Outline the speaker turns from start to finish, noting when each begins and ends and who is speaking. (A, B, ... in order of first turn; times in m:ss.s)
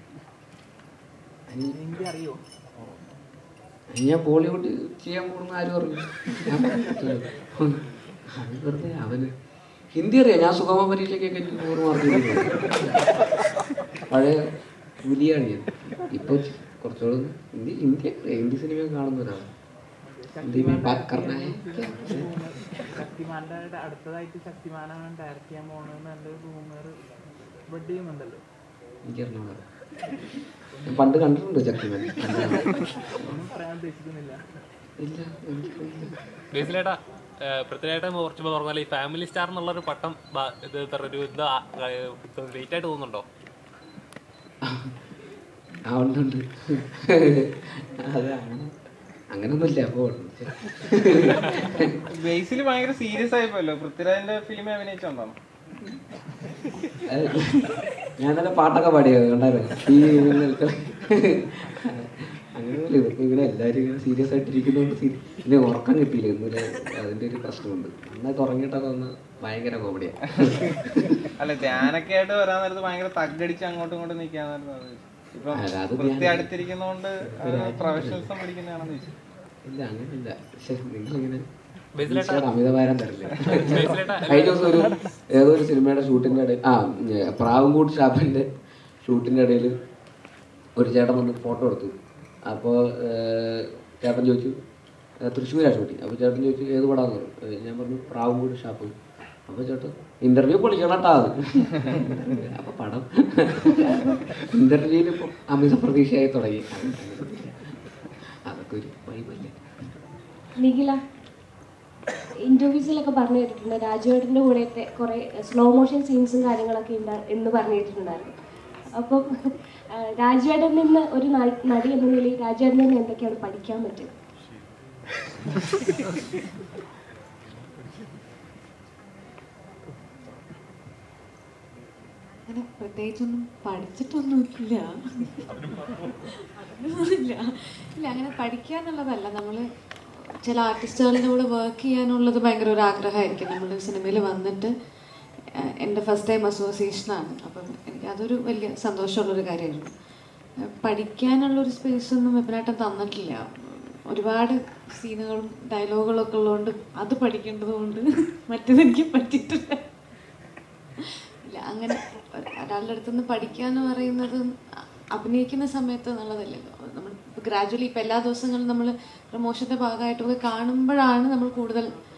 0:01.5-0:01.8 A
0:01.7-0:02.4 B
0:03.9-0:07.8 A
0:08.3-0:09.3 A
0:09.9-0:13.0 A
0:14.1-0:14.4 A
0:15.0-0:19.5 A
0:20.0-0:26.9 B
0:20.4-0:22.2 A
0:27.7-0:28.4 B
0:29.1-0:29.6 A
0:30.8-0:33.4 A
0:33.1-0:34.4 B
0:35.0-0:36.2 A
0:36.5-0:43.2 C
0:44.6-0:44.9 A
0:45.9-0:48.7 A
0:49.3-0:51.9 A
0:52.1-0:55.4 D
0:57.1-0:57.6 A
0:58.2-1:11.1 A
1:11.4-1:19.2 D
1:15.5-1:16.6 A
1:17.2-1:18.3 A
1:19.6-1:21.4 A
1:22.0-1:22.4 C
1:22.0-1:28.5 A
1:23.4-1:24.7 C
1:29.0-1:29.7 A
1:30.8-1:31.9 A
1:32.4-1:34.6 A
1:35.2-1:38.9 A
1:39.5-1:47.7 A
1:48.5-1:49.6 A
1:50.6-1:51.0 E
1:52.4-1:58.3 E
1:59.0-1:59.3 E
2:00.1-2:04.1 E
2:12.5-2:15.5 F
2:16.2-2:19.6 F
2:20.4-2:24.7 F
2:25.8-2:29.9 F
2:30.8-2:39.8 F
2:41.5-2:42.0 F
2:42.6-2:44.4 F
2:45.2-2:51.9 F